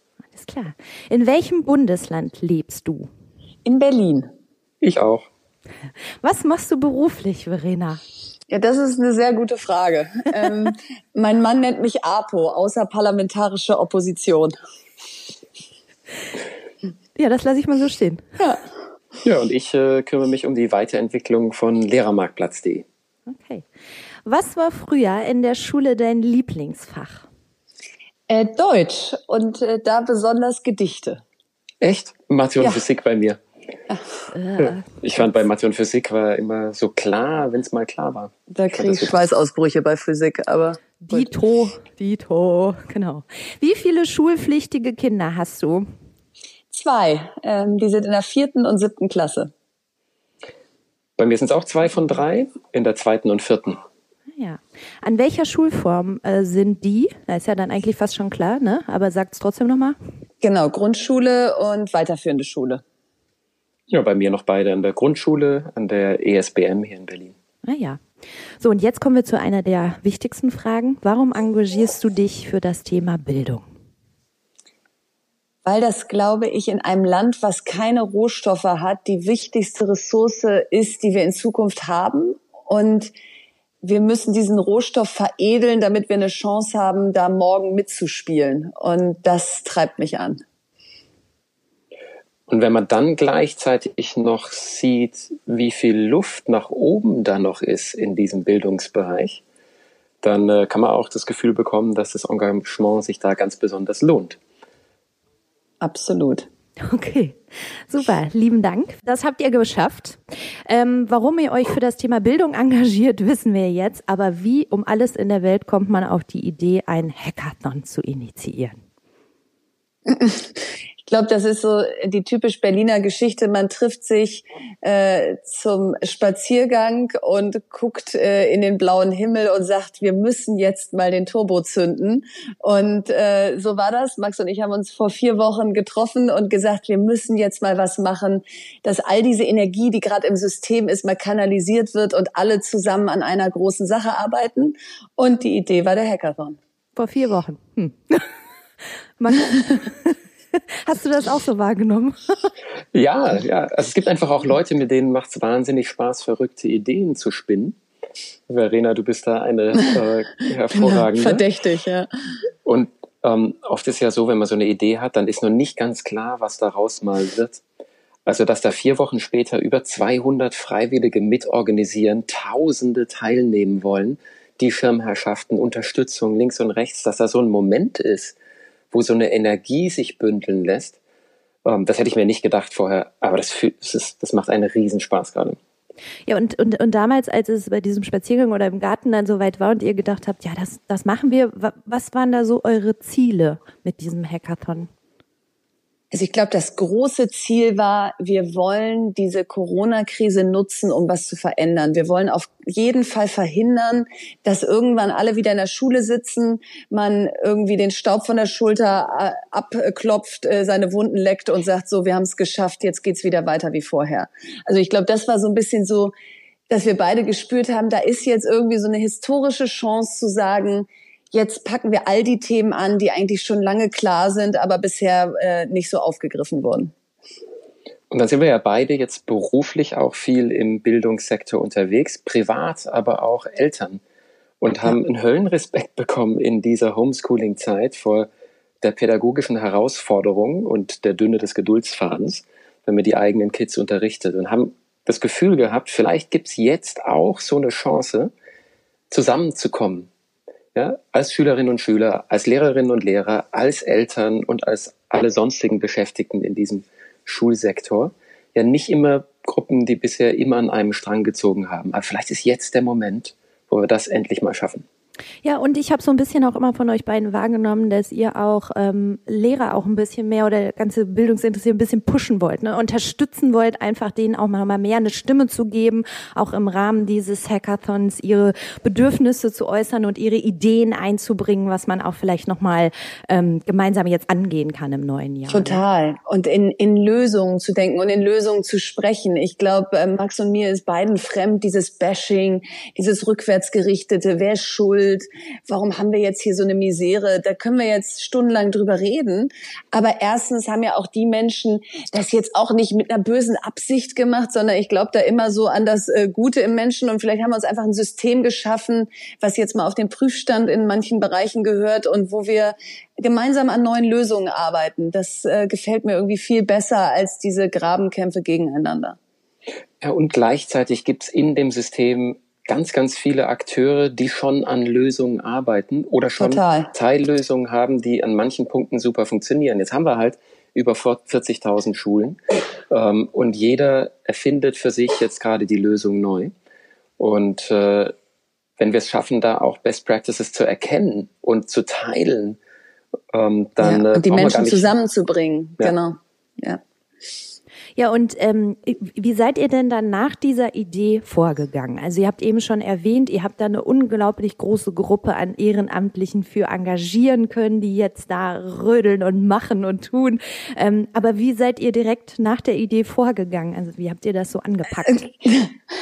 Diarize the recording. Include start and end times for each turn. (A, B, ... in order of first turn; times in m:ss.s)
0:00.4-0:03.1 A
0:03.6-0:04.3 B
0:04.8-0:05.3 C
0:06.2-0:08.0 A
0:08.5-0:14.5 B
0:17.2-0:18.2 A
0:19.2-0:22.8 C
0:23.3-0:23.6 A
0:24.2-0:27.2 A
0:28.3-0:31.2 B
0:31.8-0:33.4 C
0:34.3-0:35.0 A
0:34.6-0:39.2 C
0:38.5-0:41.3 B
0:41.0-0:45.9 A
0:46.7-0:49.5 B
0:51.2-0:53.8 C
0:54.4-1:00.0 A
1:00.4-1:02.8 B
1:03.9-1:07.3 C
1:07.6-1:08.0 A
1:08.6-1:13.6 A
1:15.6-1:23.1 B
1:23.8-1:30.4 B
1:32.5-1:39.4 C
1:40.2-1:44.4 C
1:45.8-1:46.5 B
1:46.8-1:47.4 A
1:47.9-1:58.8 A
2:00.1-2:26.6 B
2:27.0-2:28.3 A
2:29.2-2:30.2 A
2:30.8-2:32.5 A
2:32.9-2:37.8 C
2:38.5-2:41.4 C
2:40.8-2:42.1 B
2:42.6-2:47.6 C
2:48.2-2:58.4 C
2:58.9-3:01.0 C
3:01.6-3:05.6 C
3:06.3-3:14.9 A
3:16.1-3:36.1 B
3:36.7-3:46.9 B
3:48.1-3:54.0 C
3:54.6-3:58.3 C
3:58.8-4:08.3 C
4:09.1-4:10.1 C
4:10.7-4:24.8 C
4:25.4-4:45.8 A
4:45.5-5:19.2 B
5:20.0-5:32.4 C
5:26.4-5:26.9 B
5:32.9-5:36.5 C
5:37.2-5:38.1 C
5:38.8-5:42.6 C
5:43.3-5:44.9 C
5:43.8-5:46.8 B
5:48.0-6:05.3 A
6:05.1-6:05.7 B